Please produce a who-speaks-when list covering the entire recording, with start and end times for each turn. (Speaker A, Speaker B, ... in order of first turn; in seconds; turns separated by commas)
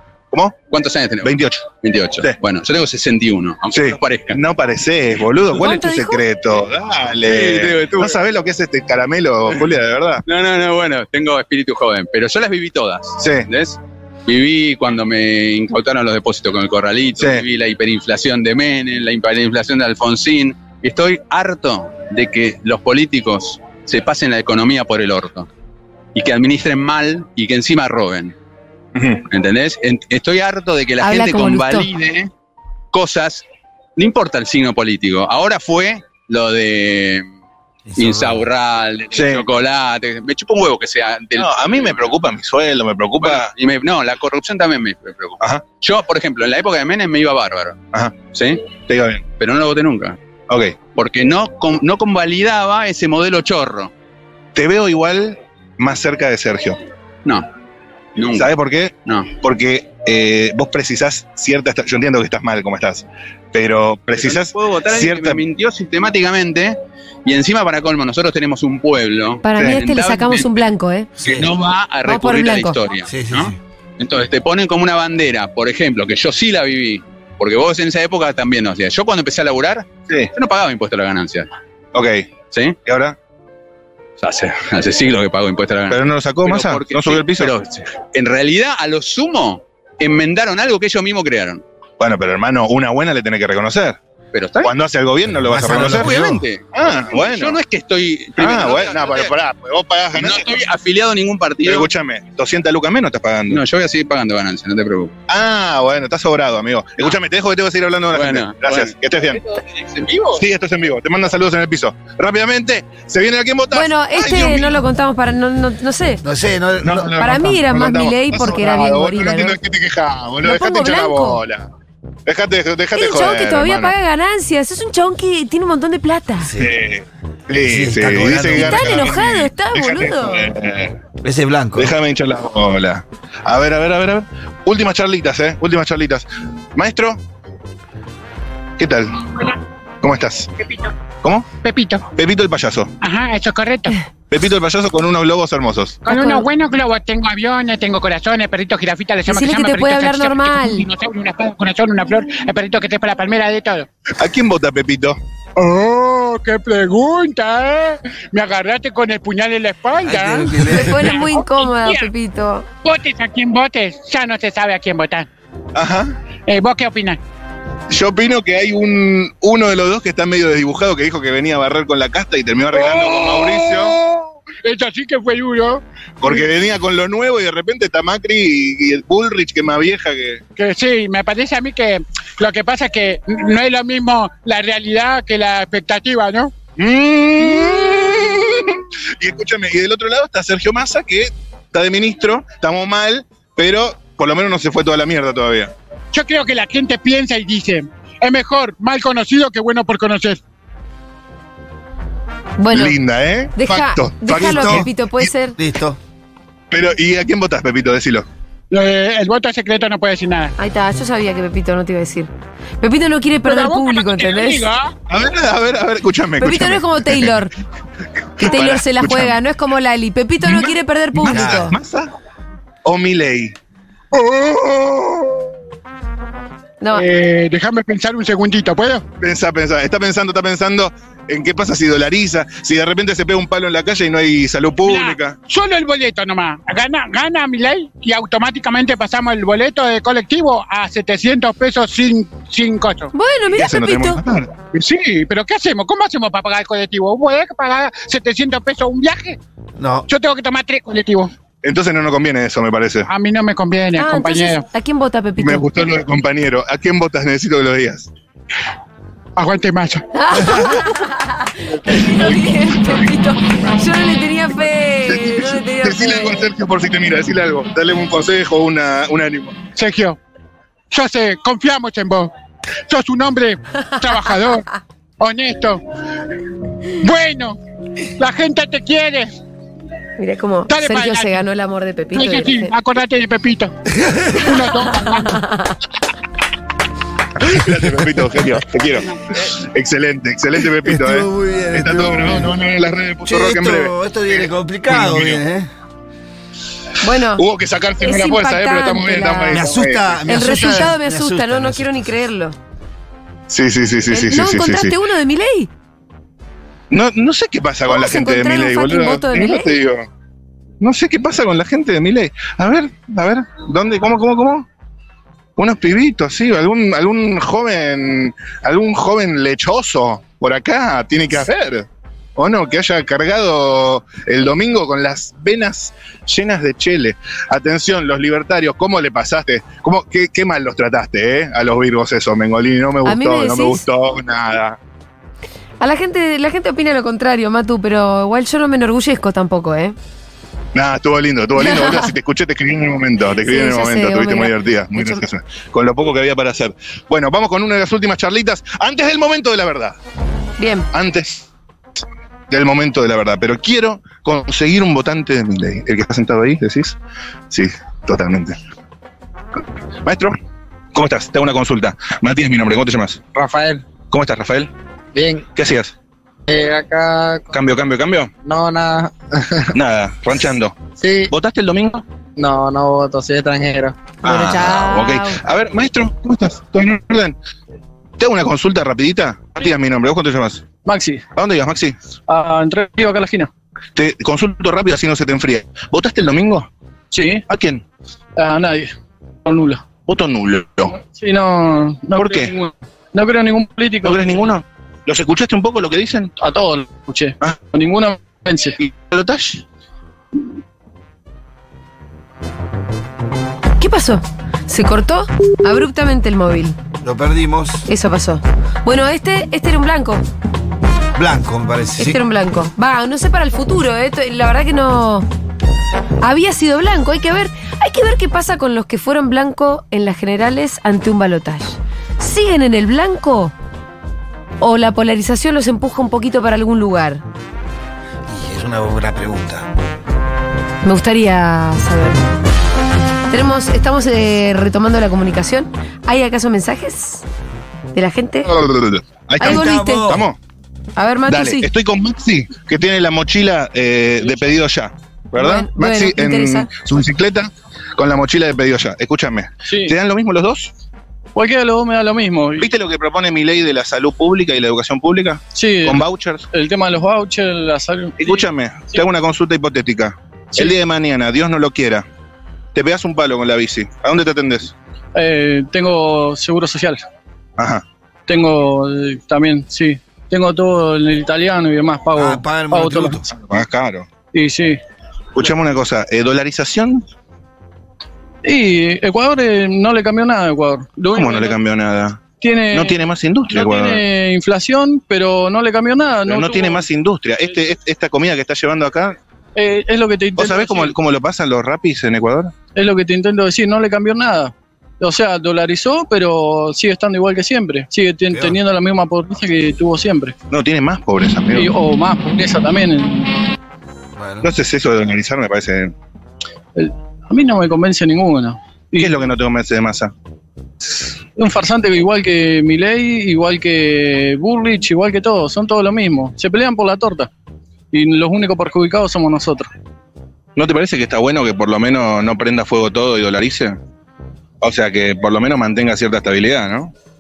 Speaker A: 0.3-0.6, Speaker B: 0.7-4.4, Speaker A: 1.2-1.7, Speaker A: 3.7-10.2, Speaker C: 5.6-6.2, Speaker B: 7.3-8.2, Speaker B: 10.3-25.5, Speaker A: 13.2-13.5, Speaker A: 17.2-17.4, Speaker B: 26.1-28.4, Speaker A: 29.0-29.2, Speaker B: 29.3-32.3, Speaker C: 31.0-31.9, Speaker B: 32.9-33.4, Speaker B: 34.0-37.3, Speaker D: 37.9-38.4, Speaker B: 38.0-42.2, Speaker A: 39.1-39.5, Speaker A: 41.4-43.5, Speaker B: 43.2-48.7, Speaker A: 45.4-45.6, Speaker A: 48.9-49.2, Speaker B: 49.4-50.2, Speaker A: 50.5-50.8, Speaker B: 50.9-53.9, Speaker A: 54.5-56.8, Speaker B: 58.2-58.5, Speaker A: 58.3-65.4, Speaker B: 59.1-59.4, Speaker B: 64.1-70.6, Speaker C: 69.4-71.1, Speaker A: 69.6-69.8, Speaker D: 71.2-71.5, Speaker B: 71.2-81.5, Speaker C: 72.0-72.8, Speaker D: 73.1-73.6, Speaker A: 81.9-82.3, Speaker B: 82.5-82.8, Speaker A: 82.8-83.2, Speaker B: 84.2-91.6, Speaker A: 85.9-87.5, Speaker A: 92.0-94.0, Speaker B: 94.3-94.7, Speaker A: 94.6-96.2, Speaker D: 95.3-96.4, Speaker B: 95.7-99.3, Speaker A: 96.7-97.6, Speaker A: 98.4-100.5, Speaker B: 100.2-101.9, Speaker A: 101.6-103.6, Speaker B: 103.5-105.1, Speaker A: 105.3-109.4, Speaker B: 108.1-109.0, Speaker B: 109.6-110.4, Speaker A: 110.3-114.8, Speaker C: 113.7-116.2, Speaker D: 116.2-117.4, Speaker A: 116.8-121.7, Speaker C: 117.2-119.6, Speaker C: 120.4-121.4, Speaker A: 122.3-124.0, Speaker C: 123.0-126.5, Speaker D: 126.4-126.7, Speaker A: 126.6-131.0, Speaker D: 127.6-129.1, Speaker C: 128.6-130.5, Speaker D: 131.2-131.9, Speaker A: 131.8-137.2, Speaker A: 138.8-139.3, Speaker A: 140.0-140.5, Speaker A: 141.2-141.5, Speaker E: 141.6-142.0, Speaker A: 142.2-142.9, Speaker E: 143.0-143.9, Speaker A: 144.3-146.1, Speaker E: 146.1-153.9, Speaker C: 146.1-146.5, Speaker C: 149.3-150.9, Speaker A: 154.2-155.2, Speaker E: 155.6-162.1, Speaker D: 160.0-161.2, Speaker C: 160.7-162.7, Speaker E: 162.8-165.3, Speaker A: 165.8-166.2, Speaker E: 166.5-167.2, Speaker A: 167.9-174.0, Speaker E: 172.8-173.9, Speaker E: 174.6-175.8, Speaker A: 176.2-180.4, Speaker E: 180.6-186.5, Speaker A: 186.8-195.7, Speaker E: 196.1-200.4, Speaker C: 202.6-202.9, Speaker A: 202.7-204.9, Speaker C: 203.6-205.6, Speaker D: 204.3-204.9, Speaker D: 205.6-206.0, Speaker A: 206.7-208.3, Speaker E: 208.7-210.5, Speaker C: 210.6-212.3, Speaker C: 212.8-214.7, Speaker E: 213.5-214.9, Speaker A: 215.1-217.3, Speaker C: 216.4-217.5, Speaker A: 218.4-219.4, Speaker C: 218.4-221.7, Speaker A: 220.4-222.1, Speaker D: 221.3-221.7, Speaker A: 222.8-223.6, Speaker A: 224.8-225.1, Speaker C: 226.8-227.1, Speaker E: 226.9-229.0, Speaker A: 229.2-235.4, Speaker E: 234.9-243.1, Speaker C: 243.1-244.2, Speaker A: 243.5-244.5, Speaker E: 244.7-249.4, Speaker D: 249.8-250.1, Speaker E: 250.1-251.3, Speaker A: 251.6-253.1, Speaker E: 253.1-254.6, Speaker C: 254.0-255.7, Speaker A: 255.4-258.1, Speaker E: 259.4-260.0, Speaker C: 260.1-266.4, Speaker A: 261.9-263.1, Speaker A: 265.1-269.7, Speaker E: 269.8-270.2, Speaker E: 270.9-272.3, Speaker E: 272.9-274.6, Speaker E: 275.2-275.8, Speaker E: 277.0-277.6, Speaker E: 278.2-279.3, Speaker C: 280.2-282.7, Speaker E: 280.7-281.4, Speaker E: 282.1-283.7, Speaker D: 283.9-284.5, Speaker E: 284.4-285.4, Speaker A: 287.4-295.4, Speaker D: 290.8-292.5, Speaker D: 293.3-295.7, Speaker C: 297.0-297.4, Speaker A: 297.4-300.9, Speaker C: 298.0-299.7, Speaker D: 299.5-302.1, Speaker C: 300.3-302.6, Speaker A: 303.5-304.9, Speaker C: 304.1-305.7, Speaker A: 306.9-310.1, Speaker C: 307.9-309.7, Speaker A: 310.8-314.6, Speaker A: 315.6-321.9, Speaker A: 322.4-334.8, Speaker C: 333.1-333.8, Speaker C: 335.8-339.9, Speaker A: 340.7-350.0, Speaker C: 341.6-342.1, Speaker C: 343.4-345.2, Speaker C: 350.6-350.9, Speaker A: 350.9-351.4, Speaker A: 352.5-357.0, Speaker A: 357.5-358.6, Speaker A: 360.1-360.4, Speaker A: 360.9-363.2, Speaker A: 364.1-364.7, Speaker A: 365.6-365.9, Speaker A: 367.5-368.3, Speaker A: 369.7-370.8, Speaker A: 371.3-372.0, Speaker A: 374.2-377.4, Speaker C: 374.2-375.4, Speaker A: 378.2-380.6, Speaker F: 380.9-381.2, Speaker A: 381.4-382.0, Speaker F: 382.3-383.5, Speaker A: 384.0-386.7, Speaker F: 387.1-387.4, Speaker A: 387.5-387.8, Speaker F: 388.4-388.9, Speaker F: 389.4-389.8, Speaker A: 390.1-390.9, Speaker F: 391.0-394.2, Speaker A: 392.2-392.5, Speaker A: 394.0-396.3, Speaker F: 396.4-398.8, Speaker A: 398.8-399.6, Speaker C: 403.8-406.8, Speaker D: 407.0-407.9, Speaker C: 407.9-410.2, Speaker D: 411.1-412.2, Speaker C: 412.0-415.3, Speaker C: 416.2-423.5, Speaker C: 424.6-427.2, Speaker D: 428.3-429.7, Speaker C: 430.8-432.2, Speaker C: 433.3-437.2, Speaker C: 437.9-438.5, Speaker A: 438.4-440.4, Speaker C: 439.4-440.1, Speaker D: 439.4-440.3, Speaker C: 441.0-441.7, Speaker A: 441.3-450.7, Speaker C: 445.4-446.7, Speaker F: 449.7-449.9, Speaker F: 451.4-452.7, Speaker A: 452.6-456.4, Speaker F: 455.5-458.4, Speaker A: 458.2-462.1, Speaker A: 462.8-464.7, Speaker F: 465.1-467.0, Speaker A: 467.6-467.8, Speaker F: 468.3-473.2, Speaker D: 472.2-473.2, Speaker A: 473.3-474.1, Speaker F: 474.3-474.8, Speaker A: 475.4-477.1, Speaker F: 478.4-481.6, Speaker A: 481.1-484.0, Speaker F: 482.4-483.0, Speaker F: 483.5-486.9, Speaker A: 486.3-489.2, Speaker F: 489.6-490.9, Speaker A: 490.4-492.5, Speaker F: 492.8-500.3, Speaker D: 498.3-498.6, Speaker A: 500.5-501.7, Speaker F: 501.5-503.3, Speaker D: 504.2-504.5, Speaker A: 504.4-505.9, Speaker F: 506.8-509.1, Speaker A: 508.9-510.1, Speaker F: 511.4-517.3, Speaker F: 517.9-519.7, Speaker A: 520.6-523.8, Speaker A: 524.6-526.9